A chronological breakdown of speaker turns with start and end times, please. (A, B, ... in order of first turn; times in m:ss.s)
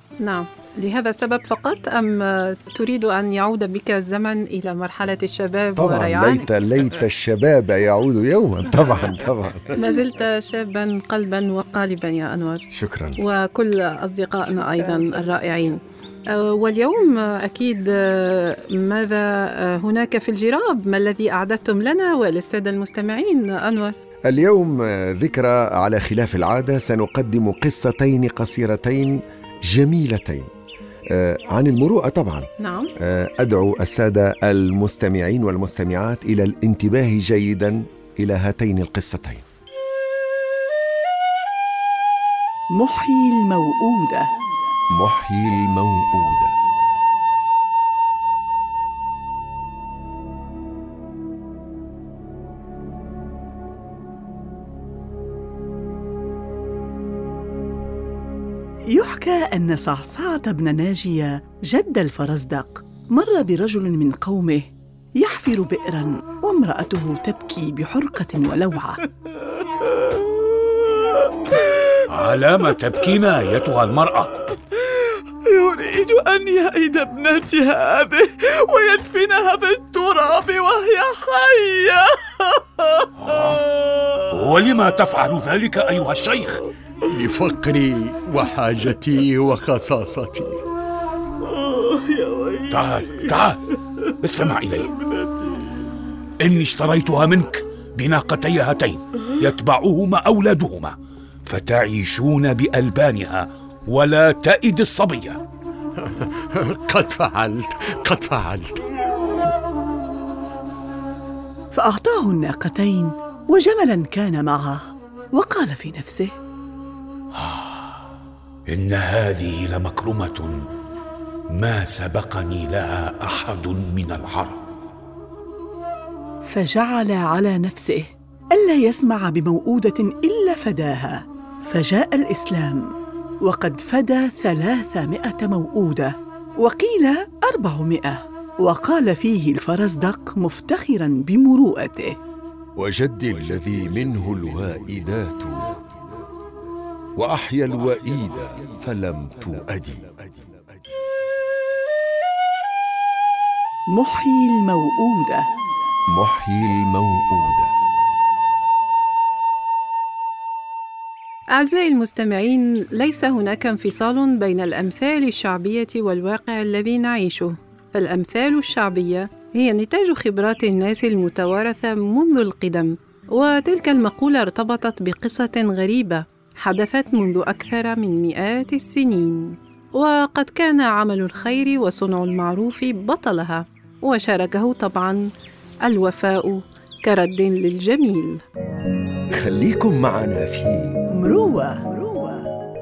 0:00.2-0:06.5 A
0:05.7-0:09.8 B
0:09.7-0:12.6 A
0:12.7-0:13.2 B
0:13.2-0:23.9 A
0:14.7-0:15.4 C
0:24.3-0:30.5 B
0:31.1-0:32.5 B
0:32.6-0:32.9 A
0:33.0-0:39.4 B
0:42.8-0:44.3 C
0:44.9-0:46.6 B
0:58.9-1:09.0 C
1:11.8-1:14.6 D
1:15.4-1:23.1 C
1:23.2-1:23.6 D
1:24.2-1:26.7 D
1:27.0-1:30.6 E
1:31.8-1:32.7 C
1:32.7-1:35.0 D
1:36.4-1:40.9 D
1:41.4-1:45.4 D
1:46.0-1:48.8 E
1:51.7-1:54.8 C
1:55.3-1:56.3 C
1:57.3-1:57.8 D
1:58.7-2:00.6 D
2:01.5-2:04.6 D
2:06.5-2:22.2 C
2:22.8-2:25.8 B
2:27.2-2:30.6 B
2:33.9-2:35.4 C
2:36.1-2:37.8 B
2:41.5-3:05.3 A
3:05.8-3:08.4 A
3:09.3-3:11.0 B
3:11.1-3:12.4 C